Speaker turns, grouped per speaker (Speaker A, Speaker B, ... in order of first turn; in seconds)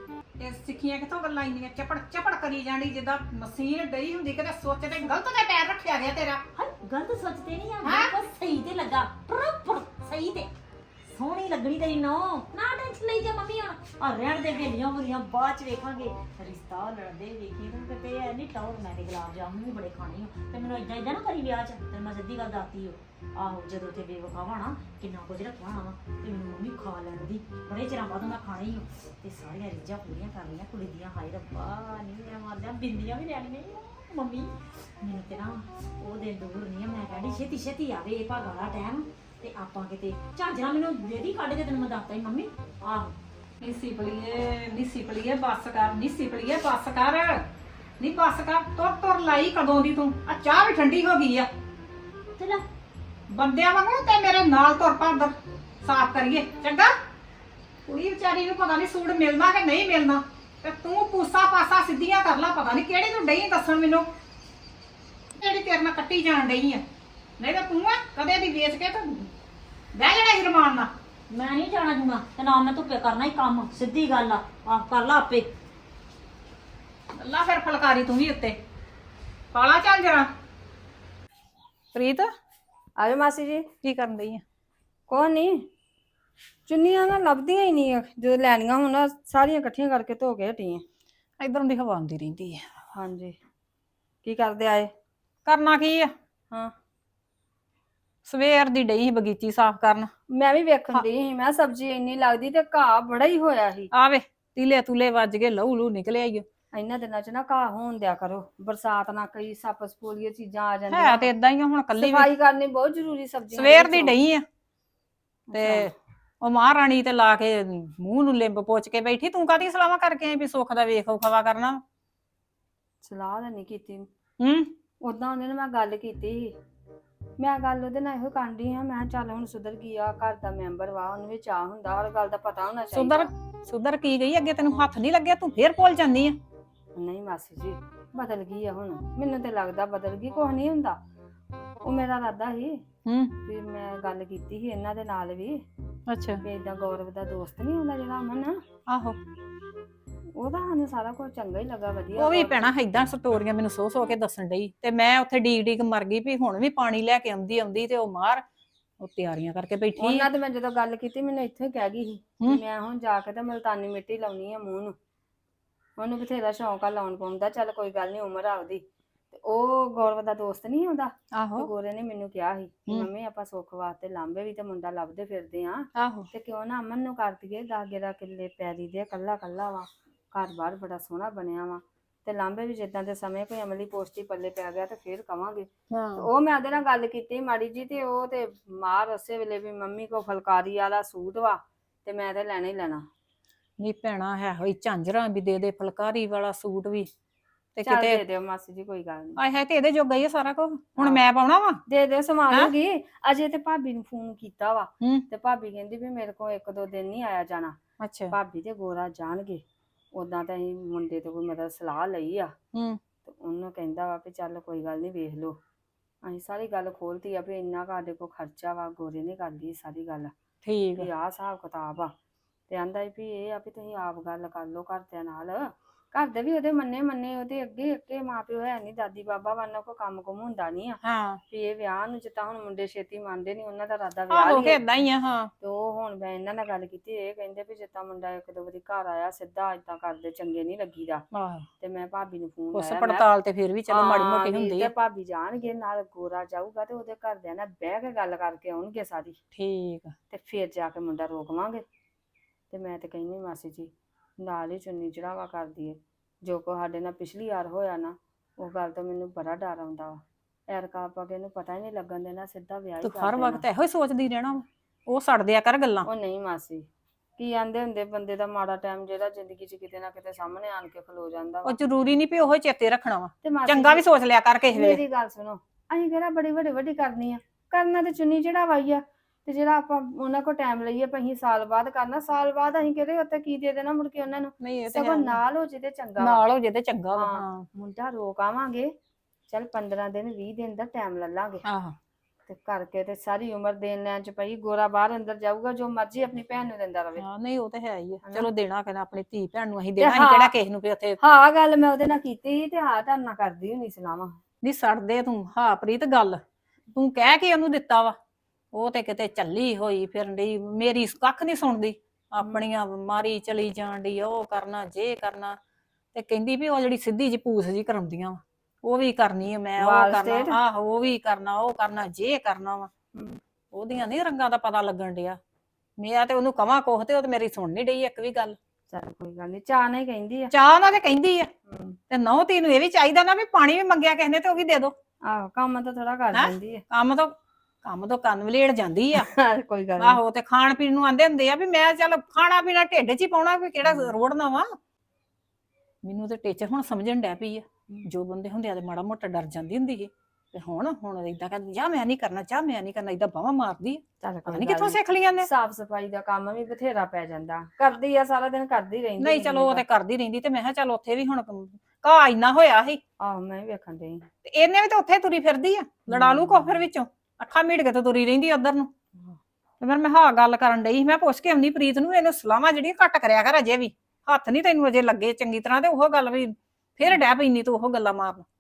Speaker A: 0.4-6.4, 7.8-8.1, 43.6-47.5, 48.0-51.5, 53.3-57.0, 57.9-64.1, 65.4-66.8, 67.4-69.3, 69.9-70.9, 77.1-78.6, 79.5-80.3, 81.9-82.3, 83.8-84.4, 91.4-92.7, 95.5-96.1, 98.2-100.1, 103.9-106.5, 110.9-112.2, 113.6-114.4, 115.5-115.9, 116.4-121.8, 124.4-124.7, 132.9-136.4, 143.1-143.3, 146.1-146.4, 148.9-149.2, 152.2-158.4, 159.0-160.2, 171.3-171.7, 176.0-176.3, 185.9-186.2, 193.8-197.1, 197.8-198.2, 199.4-201.8, 208.0-208.3, 212.7-213.0, 220.6-221.0, 231.0-231.4, 234.3-235.5, 241.3-241.7, 242.7-244.9, 249.6-250.2, 263.0-266.1, 271.7-275.0, 284.6-285.4, 286.2-287.7, 291.7-291.9, 297.2-301.2, 304.6-306.4, 306.9-308.2, 308.7-315.6, 316.1-322.9, 323.7-325.4, 326.0-328.6, 330.6-331.5, 332.1-334.9, 336.3-339.2, 340.0-344.7, 346.0-355.4, 359.2-363.0, 364.4-368.9, 369.8-378.4
Speaker B: 6.5-10.5, 11.1-43.2, 52.4-52.6, 71.3-75.5
Speaker C: 83.0-83.7, 85.1-85.5, 86.7-90.8, 92.9-93.3, 94.2-94.9, 100.3-103.9, 106.7-111.3, 112.0-114.2, 115.5-115.9, 123.0-124.1, 125.0-126.5, 127.4-133.3, 137.0-141.0, 141.8-142.8, 143.4-145.6, 146.4-148.6, 150.4-152.7, 159.9-164.9, 166.0-193.0, 197.8-199.4, 201.9-207.8, 208.3-212.5, 213.2-215.6, 216.2-220.3, 221.0-222.1, 222.7-231.0, 231.5-235.1, 235.6-241.2, 241.8-243.3, 243.9-249.4, 250.3-251.8, 252.7-263.6, 266.1-266.8, 267.4-271.8, 273.4-274.0, 274.7-286.4, 287.1-288.9, 289.5-291.6, 292.5-297.3, 298.2-298.5, 300.0-300.5, 301.2-304.4, 319.8-320.6, 328.9-330.5, 331.7-332.0, 335.3-336.8, 339.1-340.2, 343.8-344.1, 354.2-359.8, 363.2-364.3, 366.1-366.9